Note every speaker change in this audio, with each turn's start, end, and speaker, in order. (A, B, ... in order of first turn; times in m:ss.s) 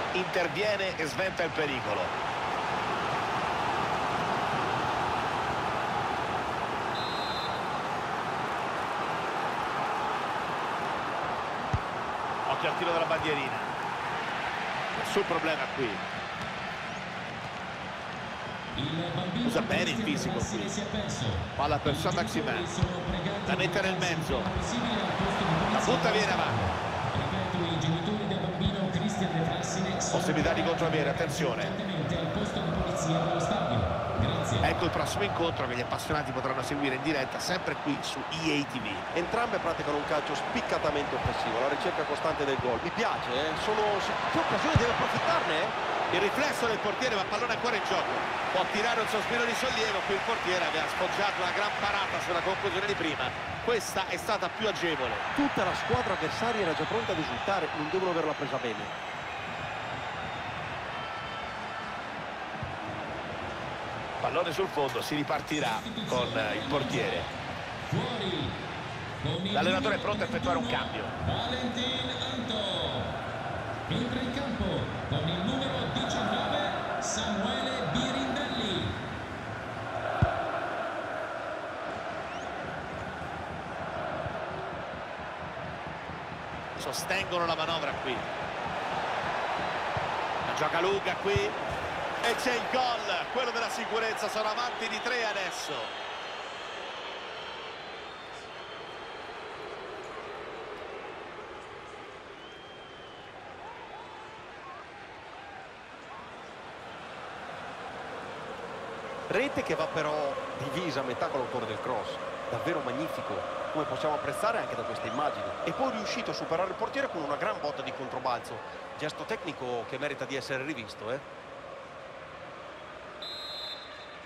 0:00.1-0:02.1 A
0:12.5-0:13.7 A
0:15.0-0:16.0 A
0:18.8-0:34.8 B
0:19.4-0:20.7 A
0:21.6-0:22.7 A
0:23.5-0:24.5 A
0:25.7-0:26.7 A
0:30.1-0:31.8 A
0:34.6-0:39.1 A
0:39.1-0:45.8 C
0:46.1-0:55.3 A
0:55.3-0:58.9 C
1:04.2-1:07.3 A
1:05.5-1:07.3 B
1:07.9-1:08.6 B
1:09.2-1:13.2 B
1:09.5-1:11.2 A
1:13.9-1:19.0 B
1:26.8-1:28.3 A
1:30.5-1:31.6 A
1:32.2-1:35.9 A
1:49.3-2:01.2 C